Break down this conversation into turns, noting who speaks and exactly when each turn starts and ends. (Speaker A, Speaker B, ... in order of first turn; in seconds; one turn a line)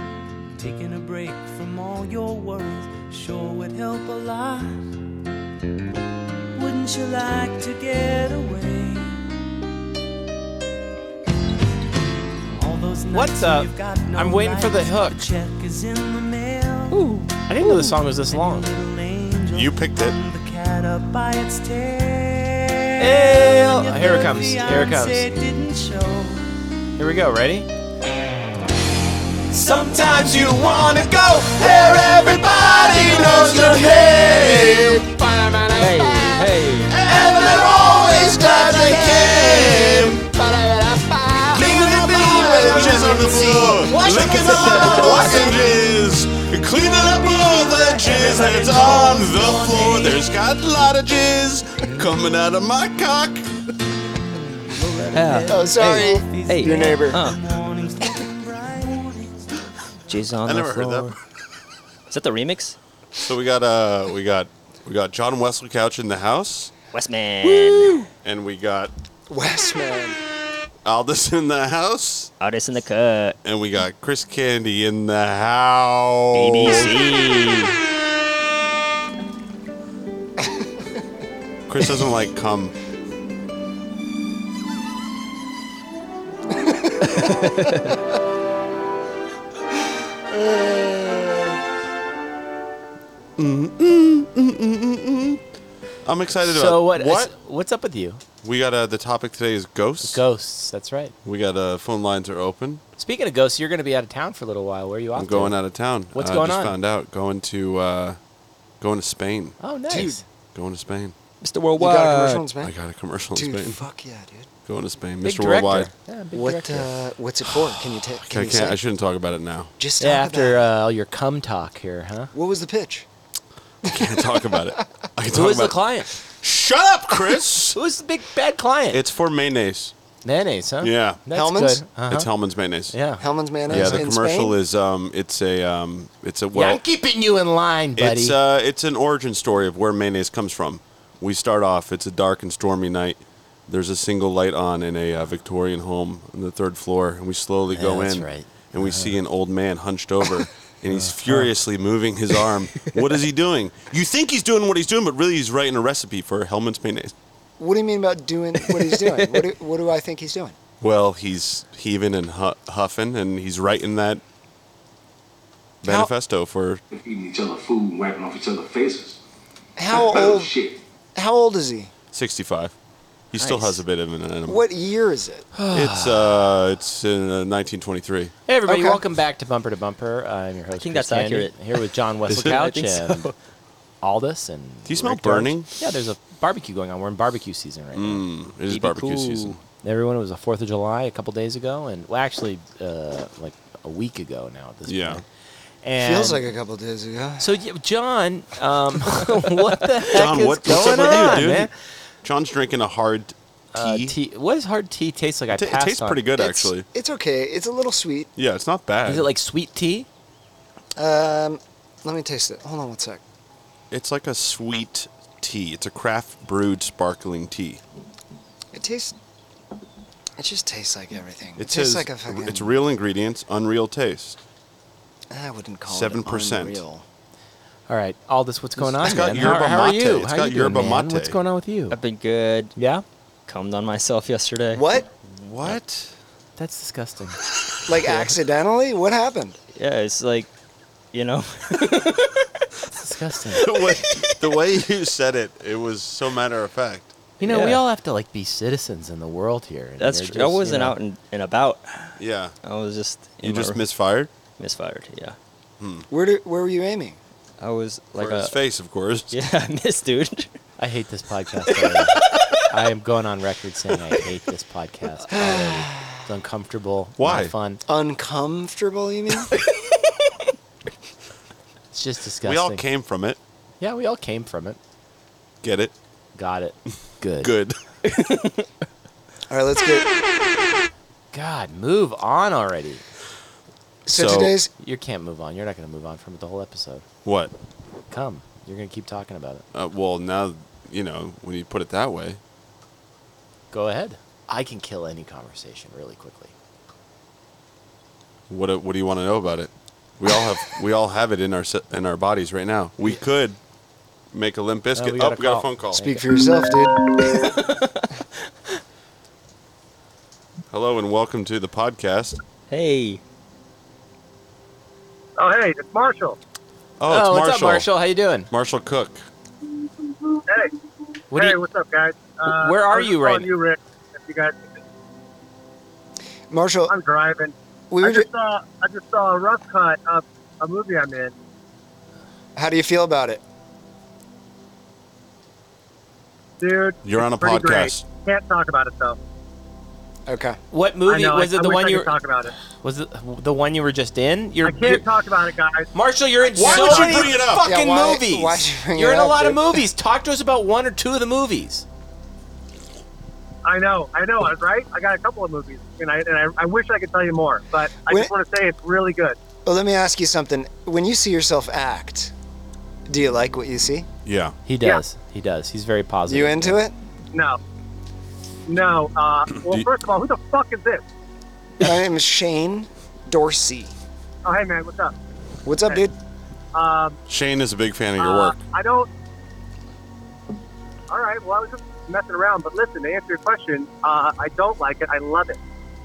Speaker A: 0.6-4.8
Speaker A: 6.5-9.3
Speaker A: 12.4-26.4
Speaker B: 13.1-15.2
Speaker C: 16.9-17.9
Speaker B: 17.4-18.7
Speaker D: 19.5-20.1
Speaker B: 23.0-25.3
Speaker B: 27.0-27.7
Speaker A: 29.5-31.5
Speaker D: 31.9-35.0
Speaker E: 32.5-35.0
Speaker C: 35.8-37.0
Speaker E: 37.0-43.5
Speaker D: 37.1-40.3
Speaker D: 41.5-53.5
Speaker B: 41.6-45.6
Speaker A: 45.0-50.4
Speaker A: 54.4-59.7
Speaker C: 55.1-57.4
Speaker E: 55.5-57.2
Speaker C: 60.1-61.1
Speaker D: 60.4-61.1
Speaker C: 62.1-62.8
Speaker D: 63.2-66.7
Speaker C: 66.9-68.1
Speaker D: 68.2-68.9
Speaker E: 69.3-70.2
Speaker D: 70.8-72.3
Speaker C: 72.4-73.4
Speaker D: 73.4-77.0
Speaker C: 76.3-77.8
Speaker D: 81.7-82.7
Speaker E: 86.7-87.1
Speaker C: 87.2-87.9
Speaker E: 90.3-91.5
Speaker D: 93.4-95.4
Speaker D: 96.0-97.3
Speaker B: 96.4-98.2
Speaker D: 98.4-100.2
Speaker B: 100.0-101.1
Speaker D: 101.2-102.8
Speaker B: 103.0-105.6
Speaker D: 105.1-108.2
Speaker B: 106.1-106.7
Speaker D: 108.8-109.6
Speaker B: 109.6-110.2
Speaker E: 109.9-110.2
Speaker D: 110.5-111.1
Speaker C: 111.4-112.5
Speaker E: 111.8-112.7
Speaker D: 112.6-113.8
Speaker E: 113.3-114.5
Speaker D: 114.7-115.9
Speaker B: 115.2-116.9
Speaker E: 116.3-118.8
Speaker D: 118.2-119.7
Speaker E: 119.8-120.6
Speaker B: 120.0-122.3
Speaker E: 122.3-123.1
Speaker E: 123.9-124.7
Speaker D: 123.9-127.8
Speaker B: 125.3-126.1
Speaker B: 127.7-129.0
Speaker D: 128.9-129.9
Speaker B: 130.2-132.3
Speaker D: 130.8-131.2
Speaker E: 131.3-131.8
Speaker D: 132.0-133.0
Speaker B: 132.9-134.1
Speaker E: 133.2-134.6
Speaker D: 133.7-136.8
Speaker B: 136.5-138.3
Speaker D: 138.0-157.1
Speaker B: 147.7-149.2
Speaker B: 150.9-151.5
Speaker E: 157.6-160.6
Speaker C: 158.6-159.5
Speaker D: 160.8-164.2
Speaker D: 165.8-166.8
Speaker E: 165.8-166.1
Speaker F: 167.0-169.2
Speaker E: 169.8-170.6
Speaker E: 171.1-171.9
Speaker D: 172.1-172.7
Speaker D: 173.3-174.6
Speaker C: 173.3-173.8
Speaker E: 174.5-175.5
Speaker B: 175.6-176.4
Speaker D: 175.7-178.3
Speaker B: 178.5-183.3
Speaker E: 178.6-179.0
Speaker C: 180.8-181.5
Speaker C: 182.3-183.3
Speaker B: 184.0-188.2
Speaker D: 184.8-185.7
Speaker D: 187.9-189.6
Speaker C: 188.7-189.6
Speaker B: 189.8-195.2
Speaker D: 194.9-195.2
Speaker B: 195.8-196.5
Speaker E: 196.0-197.5
Speaker B: 197.4-201.7
Speaker D: 200.1-201.7
Speaker D: 202.2-204.2
Speaker B: 203.7-206.2
Speaker D: 205.5-206.8
Speaker E: 206.3-208.3
Speaker D: 208.3-209.3
Speaker B: 209.0-210.1
Speaker E: 211.0-213.2
Speaker D: 213.9-217.8
Speaker E: 218.7-219.1
Speaker E: 220.4-222.7
Speaker D: 221.6-224.4
Speaker E: 225.3-227.0
Speaker D: 225.9-226.8
Speaker B: 227.9-232.0
Speaker D: 228.8-231.4
Speaker C: 231.9-232.7
Speaker B: 232.8-233.0
Speaker C: 233.5-234.8
Speaker E: 234.7-235.1
Speaker D: 235.2-236.1
Speaker B: 236.6-237.4
Speaker E: 237.8-239.6
Speaker B: 238.0-238.3
Speaker C: 239.7-240.5
Speaker C: 241.1-242.6
Speaker B: 243.0-243.6
Speaker D: 243.6-247.1
Speaker C: 243.8-244.2
Speaker B: 247.4-250.9
Speaker C: 247.4-247.8
Speaker C: 250.0-253.8
Speaker D: 252.2-252.5
Speaker D: 253.4-254.3
Speaker C: 254.6-255.4
Speaker D: 255.8-256.1
Speaker E: 256.1-257.2
Speaker C: 257.6-258.5
Speaker D: 258.2-259.3
Speaker C: 259.3-260.5
Speaker B: 260.8-267.8
Speaker C: 261.8-262.5
Speaker E: 265.3-266.1
Speaker D: 267.2-267.5
Speaker E: 267.9-269.5
Speaker B: 271.9-272.8
Speaker D: 272.4-273.4
Speaker B: 273.8-274.8
Speaker D: 275.6-275.9
Speaker B: 276.4-277.5
Speaker D: 277.4-277.8
Speaker C: 278.0-278.6
Speaker E: 279.5-280.1
Speaker B: 281.3-283.0
Speaker E: 284.1-284.7
Speaker D: 284.1-284.5
Speaker B: 284.8-287.0
Speaker D: 287.2-287.5
Speaker B: 288.1-289.6
Speaker D: 289.7-292.4
Speaker B: 293.7-296.5
Speaker D: 298.5-303.6
Speaker D: 304.3-306.0
Speaker B: 304.9-306.2
Speaker E: 306.0-307.4
Speaker C: 307.6-308.0
Speaker D: 310.7-312.4
Speaker C: 312.7-313.2
Speaker G: 315.4-316.4
Speaker D: 317.0-317.9
Speaker B: 317.1-318.5
Speaker D: 318.5-319.2
Speaker G: 320.5-320.7
Speaker B: 321.3-321.6
Speaker G: 321.3-324.8
Speaker B: 322.4-323.5
Speaker E: 326.5-326.9
Speaker G: 326.9-331.3
Speaker E: 327.9-328.3
Speaker E: 332.6-333.4
Speaker G: 336.6-339.2
Speaker D: 337.0-338.0
Speaker E: 340.3-340.6
Speaker B: 340.7-342.1
Speaker G: 341.1-342.5
Speaker B: 342.8-345.1
Speaker G: 344.6-345.9
Speaker B: 345.9-351.9
Speaker G: 346.5-347.4
Speaker D: 346.5-347.7
Speaker E: 347.5-349.9
Speaker G: 353.6-359.4
Speaker E: 358.1-358.3
Speaker E: 359.6-362.3
Speaker E: 363.1-364.1
Speaker D: 364.2-364.6
Speaker B: 364.6-366.8
Speaker E: 366.3-366.9
Speaker G: 367.3-367.6
Speaker G: 368.7-371.0
Speaker D: 369.6-369.9
Speaker E: 371.8-373.9
Speaker G: 374.4-375.1
Speaker E: 375.6-376.1
Speaker G: 376.7-377.2
Speaker D: 377.3-378.6
Speaker G: 378.2-379.1
Speaker G: 381.1-385.6